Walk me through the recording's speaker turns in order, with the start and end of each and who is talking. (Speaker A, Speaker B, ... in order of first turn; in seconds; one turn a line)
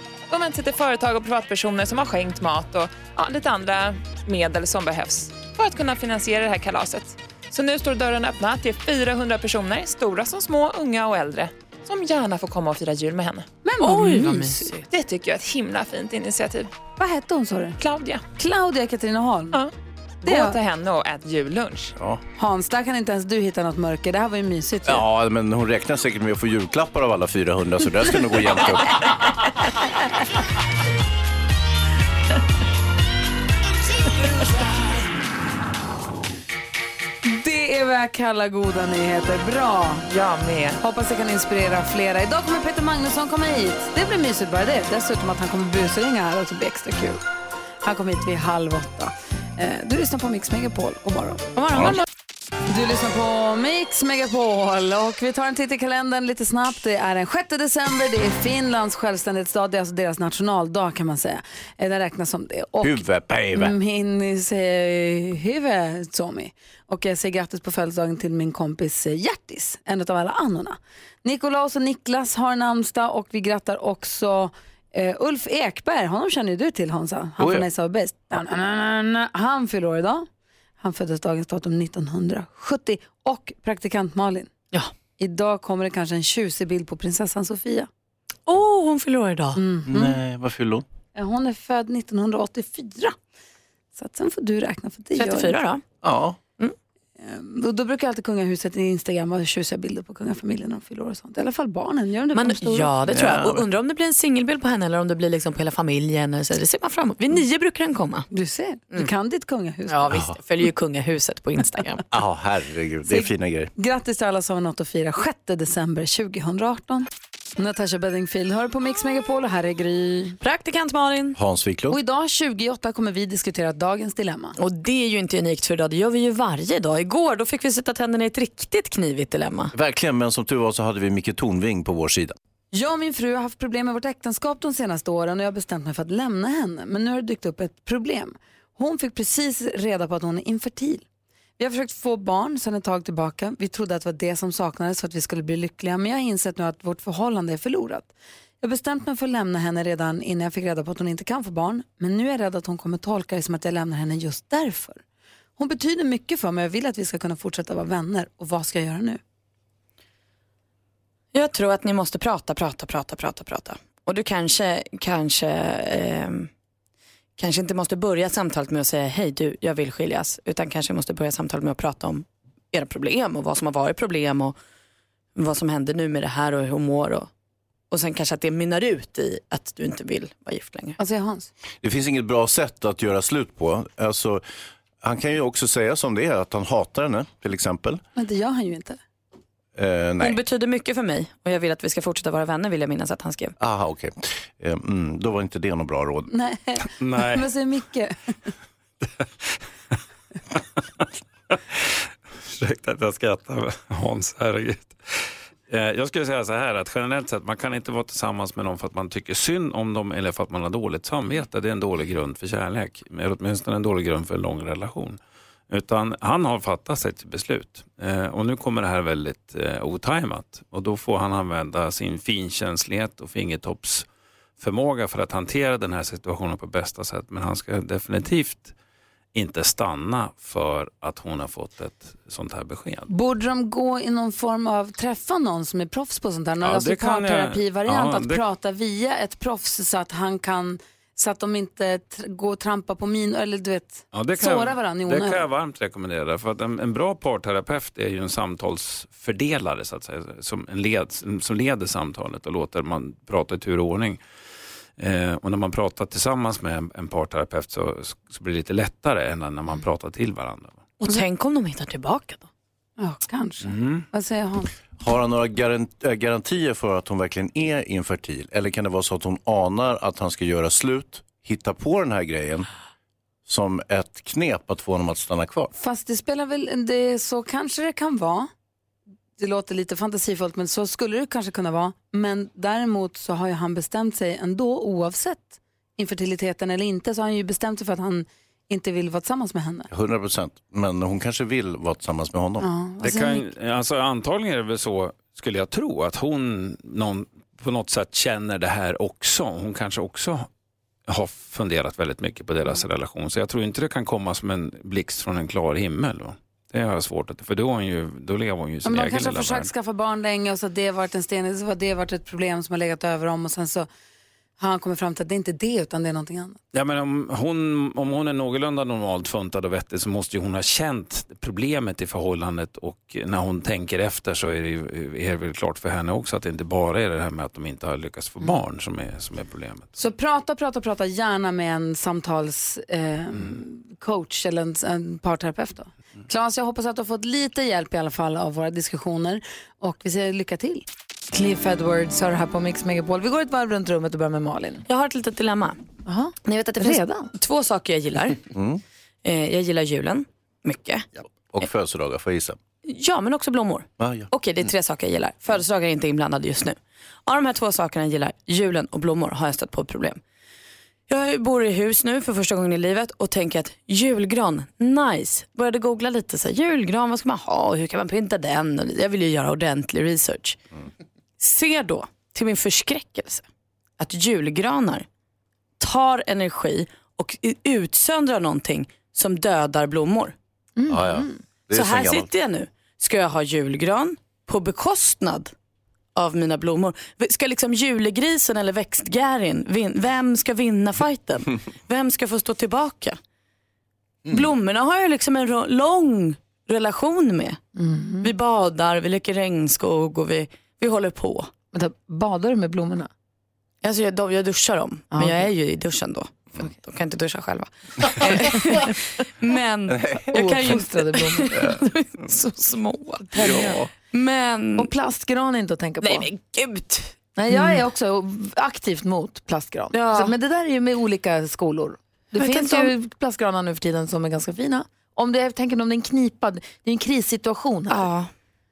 Speaker A: 0.3-13.5
Speaker B: 13.6-14.7
Speaker C: 13.8-14.9
Speaker A: 14.9-16.7
Speaker B: 17.0-17.8
Speaker A: 17.8-18.2
Speaker B: 18.4-19.6
Speaker A: 20.2-21.9
Speaker B: 20.2-20.6
Speaker D: 22.0-22.2
Speaker B: 22.4-25.0
Speaker D: 24.8-29.1
Speaker B: 37.2-40.1
Speaker A: 40.1-40.8
Speaker B: 40.8-47.2
Speaker B: 47.8-51.5
Speaker C: 51.5-52.0
Speaker B: 52.7-63.0
Speaker D: 62.8-63.7
Speaker B: 63.5-80.2
Speaker D: 77.4-77.7
Speaker B: 80.8-84.5
Speaker B: 85.2-87.9
Speaker C: 88.5-89.6
Speaker B: 89.5-90.2
Speaker D: 89.9-90.8
Speaker B: 91.1-93.2
Speaker B: 94.0-95.6
Speaker C: 95.2-95.8
Speaker D: 96.0-96.4
Speaker B: 97.2-103.0
Speaker C: 102.3-108.3
Speaker D: 103.1-103.6
Speaker B: 108.3-110.1
Speaker C: 109.9-112.0
Speaker D: 110.1-110.3
Speaker D: 112.1-113.7
Speaker B: 113.1-120.4
Speaker C: 120.4-121.4
Speaker D: 121.3-122.0
Speaker B: 121.9-124.6
Speaker C: 124.6-129.7
Speaker D: 129.7-132.3
Speaker B: 132.7-141.0
Speaker B: 141.6-155.0
Speaker B: 155.6-159.2
Speaker C: 161.3-166.5
Speaker C: 167.4-174.5
Speaker C: 175.3-177.3
Speaker C: 177.9-181.0
Speaker B: 181.0-181.5
Speaker D: 181.8-184.4
Speaker D: 185.0-188.0
Speaker B: 188.1-189.0
Speaker D: 189.7-190.4
Speaker C: 190.2-193.5
Speaker D: 193.6-196.3
Speaker B: 196.3-198.1
Speaker E: 197.0-197.4
Speaker E: 201.5-215.2
Speaker E: 215.7-224.1
Speaker E: 224.6-228.7
Speaker E: 229.3-233.1
Speaker B: 233.1-245.4
Speaker E: 236.6-238.4
Speaker E: 244.1-254.2
Speaker E: 255.0-260.8
Speaker C: 261.0-262.5
Speaker B: 263.0-264.7
Speaker E: 263.6-264.1
Speaker D: 265.0-272.7
Speaker D: 273.4-275.7
Speaker B: 275.7-278.5
Speaker B: 279.4-289.9
Speaker D: 289.9-292.7
Speaker B: 292.6-293.4
Speaker E: 293.0-300.5
Speaker E: 301.1-309.7
Speaker B: 308.8-313.9
Speaker B: 314.6-316.6
Speaker E: 316.7-329.9
Speaker B: 330.0-344.8
Speaker E: 333.3-333.6
Speaker C: 344.9-345.8
Speaker B: 346.1-347.3
Speaker C: 346.8-348.4
Speaker D: 348.5-348.8
Speaker C: 349.2-351.1
Speaker D: 351.2-352.6
Speaker C: 352.8-360.2
Speaker D: 354.0-354.3
Speaker C: 361.1-370.6
Speaker C: 371.4-373.4
Speaker C: 374.0-375.1
Speaker C: 375.8-380.3
Speaker B: 380.8-381.4
Speaker D: 380.9-382.3
Speaker C: 381.7-385.5
Speaker C: 386.1-393.2
Speaker C: 394.3-397.6
Speaker B: 397.8-398.3
Speaker C: 398.2-401.5
Speaker B: 401.7-403.1
Speaker C: 403.8-414.9
Speaker B: 405.1-405.4
Speaker D: 409.9-410.3
Speaker B: 410.3-411.7
Speaker B: 413.3-413.8
Speaker D: 413.4-413.9
Speaker B: 414.8-416.3
Speaker C: 416.0-417.8
Speaker B: 417.4-428.1
Speaker C: 419.9-420.3
Speaker C: 422.4-422.9
Speaker C: 427.9-428.3